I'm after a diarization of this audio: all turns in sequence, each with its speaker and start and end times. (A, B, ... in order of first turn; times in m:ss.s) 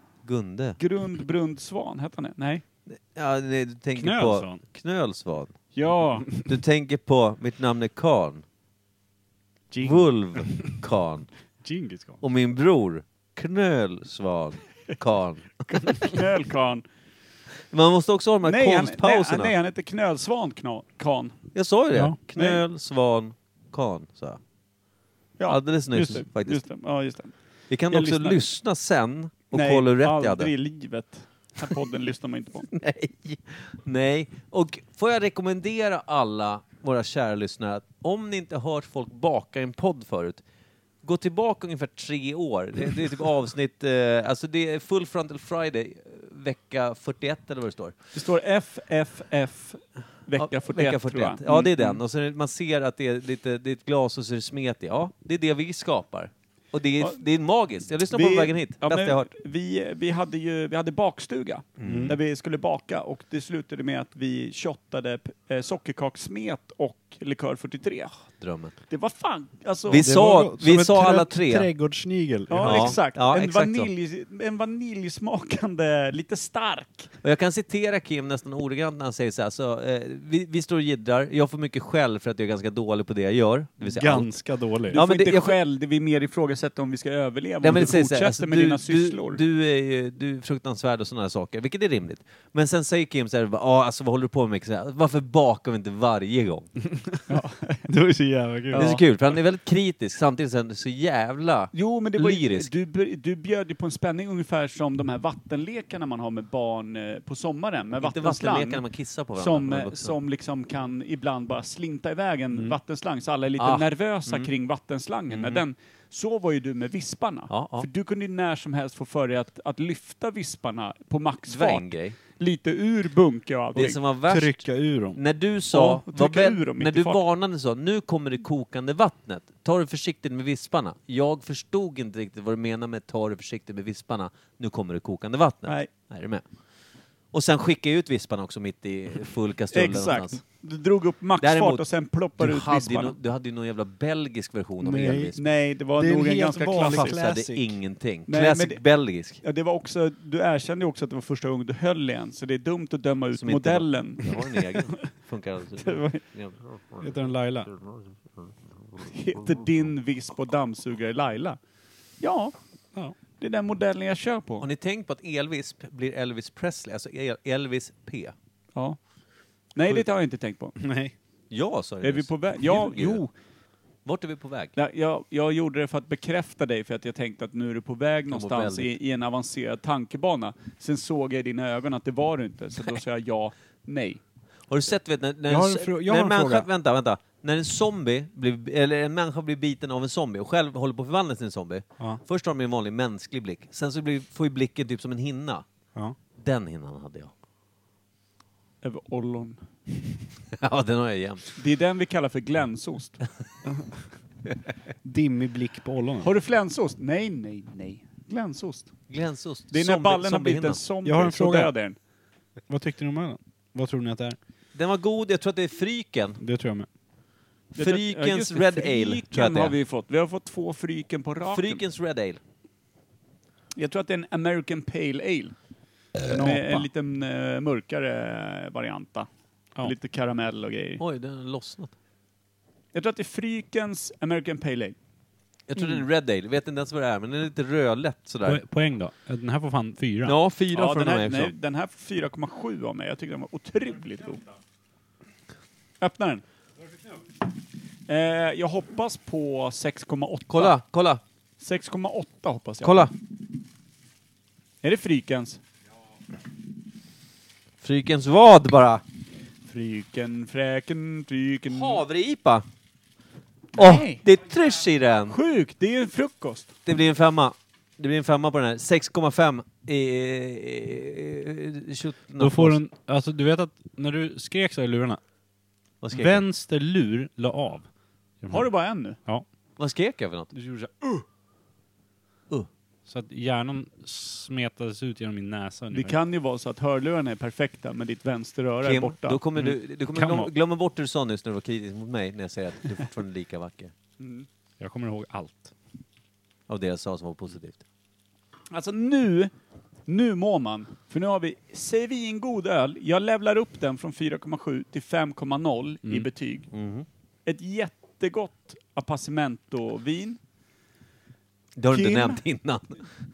0:00.2-0:00.8 A
0:00.8-0:02.6 B
0:02.9-0:05.6 A
0:04.0-0:04.6 C
0:05.7-0:06.3 B
0:06.4-0:08.4 A
0:09.7-0:10.7 C
0:09.8-0:11.3 A
0:11.6-0:12.2 C
0:12.2-0:16.1 A
0:15.7-0:16.8 B
0:17.7-0:19.5 A
0:18.4-0:21.4 B
0:21.5-0:24.4 A
0:22.3-0:22.6 B
0:25.4-0:27.3 B
0:25.5-0:26.6 A
0:27.7-0:30.5 A
0:27.9-0:28.4 B
0:29.5-0:32.7 B
0:32.7-0:40.4 A
0:41.0-0:47.9 A
0:48.1-0:52.0 B
0:50.4-0:59.3 A
0:58.1-1:08.1 B
1:01.8-1:02.2 A
1:01.9-1:02.2 C
1:08.4-1:08.7 A
1:08.9-1:10.1 B
1:09.9-1:11.7 A
1:10.0-1:13.0 C
1:12.5-1:17.1 B
1:12.6-1:13.9 A
1:17.2-1:24.3 A
1:23.8-1:25.0 C
1:24.9-1:25.6 A
1:24.9-1:29.4 B
1:27.6-1:36.7 A
1:36.9-1:37.2 C
1:37.3-1:37.9 B
1:37.9-1:38.9 C
1:38.7-1:39.0 B
1:38.7-1:42.7 A
1:41.7-1:48.8 B
1:48.0-1:50.2 A
1:49.4-2:04.0 B
1:53.6-1:54.5 A
1:55.3-1:55.6 A
1:57.5-1:57.9 A
2:01.5-2:02.2 A
2:03.7-2:16.4 A
2:04.3-2:05.2 C
2:05.7-2:07.2 B
2:17.3-2:20.4 A
2:19.7-2:23.1 B
2:21.4-2:21.8 A
2:22.4-2:25.4 A
2:24.8-2:25.4 C
2:25.4-2:27.2 B
2:26.0-2:27.7 C
2:26.7-2:29.4 A
2:28.3-2:35.1 B
2:33.3-2:37.1 A
2:35.8-2:36.2 B
2:37.0-2:37.7 C
2:37.7-2:38.5 A
2:39.0-2:41.6 B
2:42.2-2:42.5 B
2:43.4-2:44.6 B
2:44.6-2:48.3 A
2:49.7-2:50.8 B
2:50.8-2:51.1 C
2:51.5-2:53.2 A
2:52.0-2:53.3 B
2:54.0-2:54.7 A
2:54.8-3:04.2 B
2:58.3-2:58.9 A
3:04.7-3:15.6 A
3:05.5-3:06.7 C
3:16.4-3:17.3 A
3:18.8-3:19.6 B
3:20.5-3:21.5 A
3:21.6-3:23.3 B
3:25.0-3:26.3 C
3:26.2-3:28.9 B
3:29.1-3:30.8 A
3:29.7-3:32.0 B
3:31.0-3:31.7 C
3:32.7-3:34.4 C
3:34.7-3:36.4 A
3:36.4-3:36.9 C
3:37.7-3:39.7 A
3:37.7-3:41.8 B
3:41.5-3:42.4 A
3:43.8-3:45.5 B
3:46.3-3:51.0 B
3:46.3-3:46.8 C
3:51.0-3:51.9 A
3:52.9-3:54.9 B
3:55.7-3:58.6 A
3:58.4-4:00.4 C
4:00.2-4:01.5 A
4:00.7-4:04.5 B
4:06.0-4:06.4 B
4:08.1-4:10.7 B
4:10.5-4:11.2 A
4:11.6-4:13.1 B
4:12.8-4:13.1 A
4:14.8-4:15.6 B
4:17.8-4:19.0 A
4:19.7-4:22.0 B
4:21.7-4:22.6 A
4:23.7-4:24.2 B
4:23.7-4:25.4 A
4:25.3-4:26.7 B
4:26.9-4:32.8 A
4:32.4-4:35.2 C
4:36.0-4:36.4 A
4:36.1-4:37.9 C
4:38.4-4:38.7 C
4:38.5-4:39.2 B
4:39.8-4:40.5 A
4:40.5-4:41.2 C
4:43.0-4:46.1 C
4:45.9-4:49.4 B
4:48.8-4:53.9 A
4:49.6-4:50.5 C
4:54.2-4:54.4 B
4:54.8-4:55.7 C
4:56.7-4:57.8 A
4:58.7-4:59.5 B
5:00.1-5:06.7 B
5:06.7-5:07.0 A
5:07.4-5:10.4 B
5:11.8-5:13.0 A
5:11.9-5:12.4 B